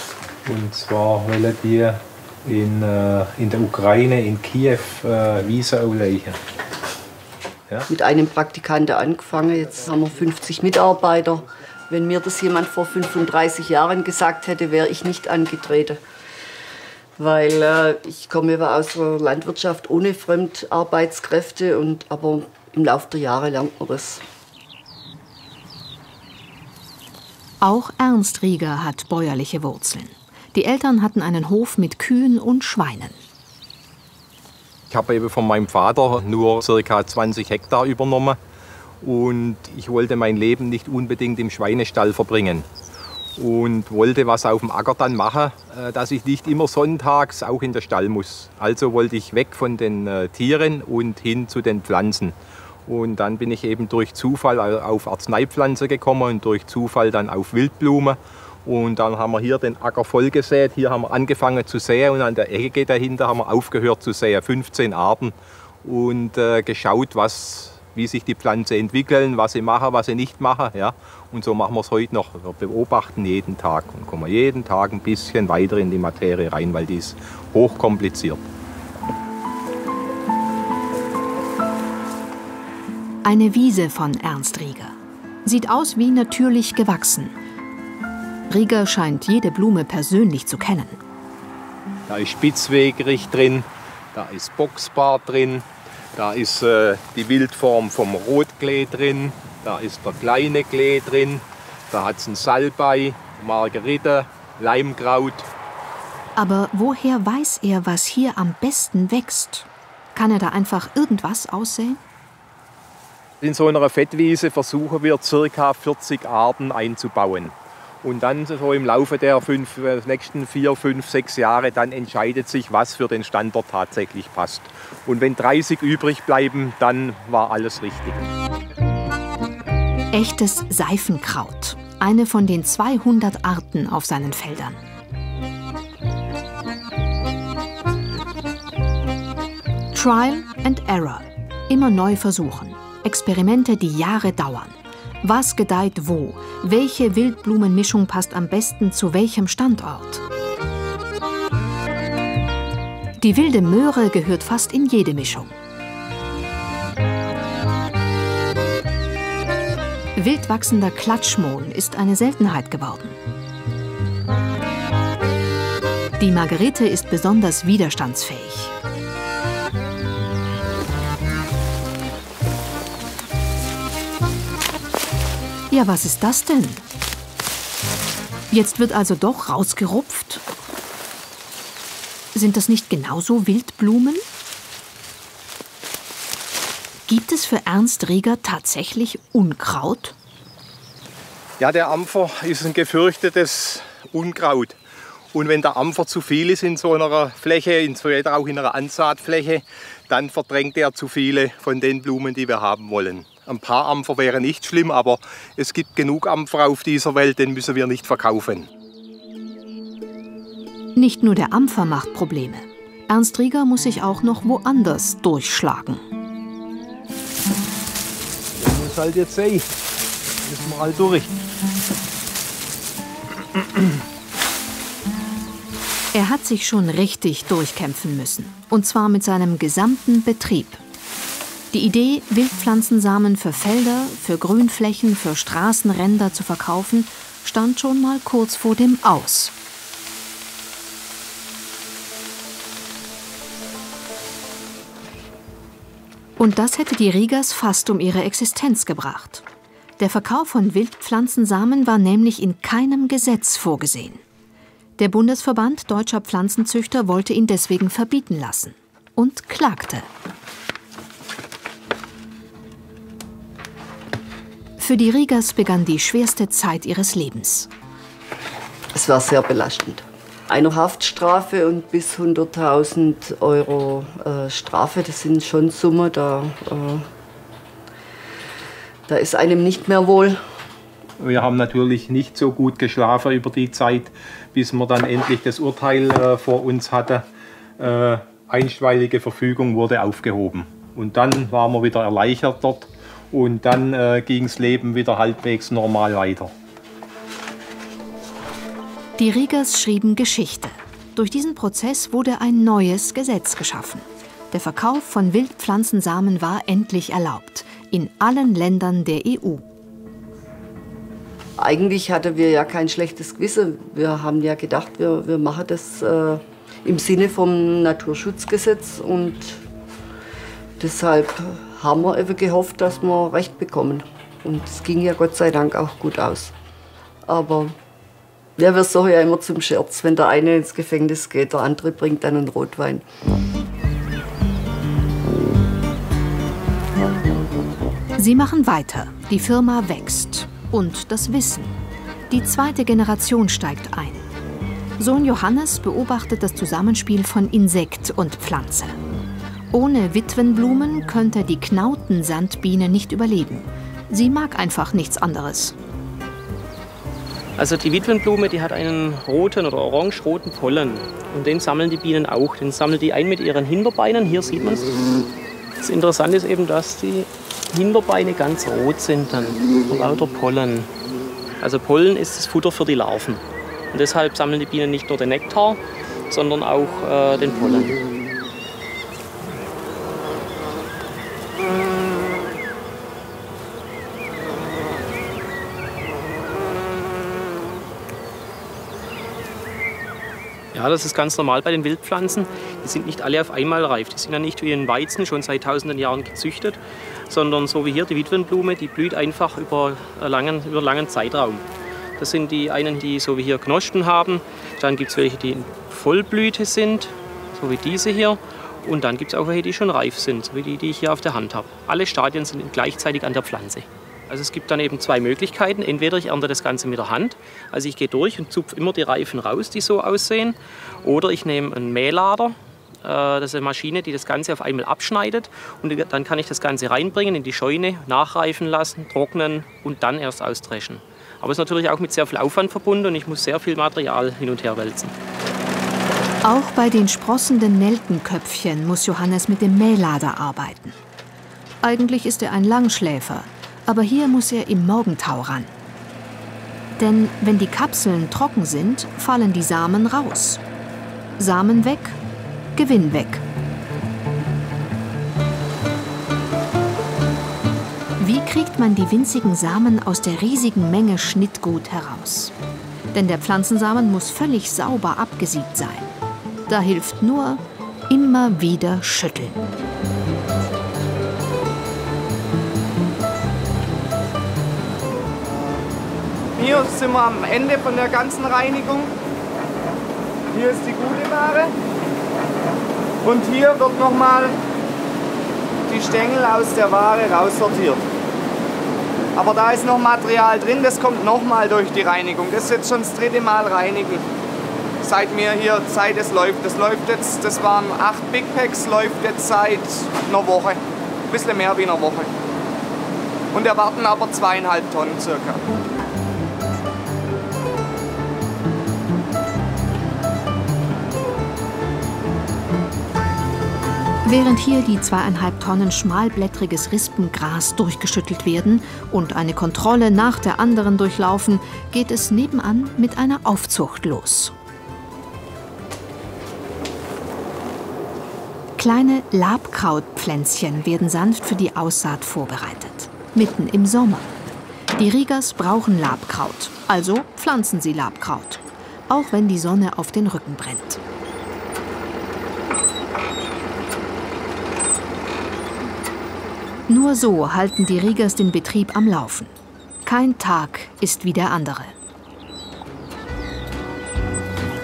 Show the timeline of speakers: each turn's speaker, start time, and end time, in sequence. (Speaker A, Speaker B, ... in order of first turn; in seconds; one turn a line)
Speaker A: 0.4-6.4
Speaker B: 7.9-16.0
Speaker B: 17.2-24.2
Speaker C: 27.6-33.2
Speaker A: 34.9-38.4
Speaker A: 39.0-42.7
Speaker A: 43.4-78.4
Speaker C: 83.2-84.9
Speaker C: 85.4-87.4
Speaker C: 88.5-91.0
Speaker A: 92.1-105.5
Speaker C: 106.4-112.0
Speaker A: 113.4-128.2
Speaker C: 130.1-134.8
Speaker C: 139.9-150.2
Speaker C: 153.2-155.5
Speaker C: 160.2-163.2
Speaker C: 166.2-168.7
Speaker C: 175.7-176.8
Speaker C: 178.5-180.4
Speaker C: 182.3-184.2
Speaker C: 187.1-190.1
Speaker A: 191.6-194.8
Speaker A: 195.3-208.7
Speaker C: 211.0-216.0
Speaker A: 218.6-219.7
Speaker A: 220.4-221.3
Speaker C: 226.1-230.8
Speaker C: 231.7-239.5
Speaker C: 246.4-249.4
Speaker C: 250.0-254.2
Speaker C: 255.0-260.1
Speaker C: 264.8-267.7
Speaker B: 268.9-277.1
Speaker B: 279.1-280.4
Speaker A: 281.2-287.2
Speaker A: 287.8-296.5
Speaker C: 299.2-309.6
Speaker B: 311.6-319.6
Speaker B: 320.8-326.5
Speaker B: 327.2-327.8
Speaker B: 328.6-333.0
Speaker C: 338.1-341.7
Speaker C: 342.3-344.2
Speaker C: 345.0-349.0
Speaker C: 349.7-355.8
Speaker D: 357.6-364.9
Speaker D: 365.8-370.9
Speaker D: 371.6-378.0
Speaker D: 390.7-401.6
Speaker D: 402.2-435.1
Speaker C: 436.4-441.0
Speaker C: 441.8-445.7
Speaker C: 447.0-450.6
Speaker C: 451.4-452.2
Speaker C: 452.8-453.4
Speaker C: 458.2-462.5
Speaker C: 463.1-466.1
Speaker C: 466.7-469.6
Speaker E: 476.5-479.1
Speaker E: 480.5-481.7
Speaker E: 483.2-484.6
Speaker E: 485.9-488.0
Speaker E: 489.4-494.2
Speaker E: 495.0-502.3
Speaker E: 503.5-505.6
Speaker C: 514.2-524.5
Speaker C: 528.8-534.4
Speaker C: 535.0-541.0
Speaker C: 546.9-549.5
Speaker C: 550.0-551.9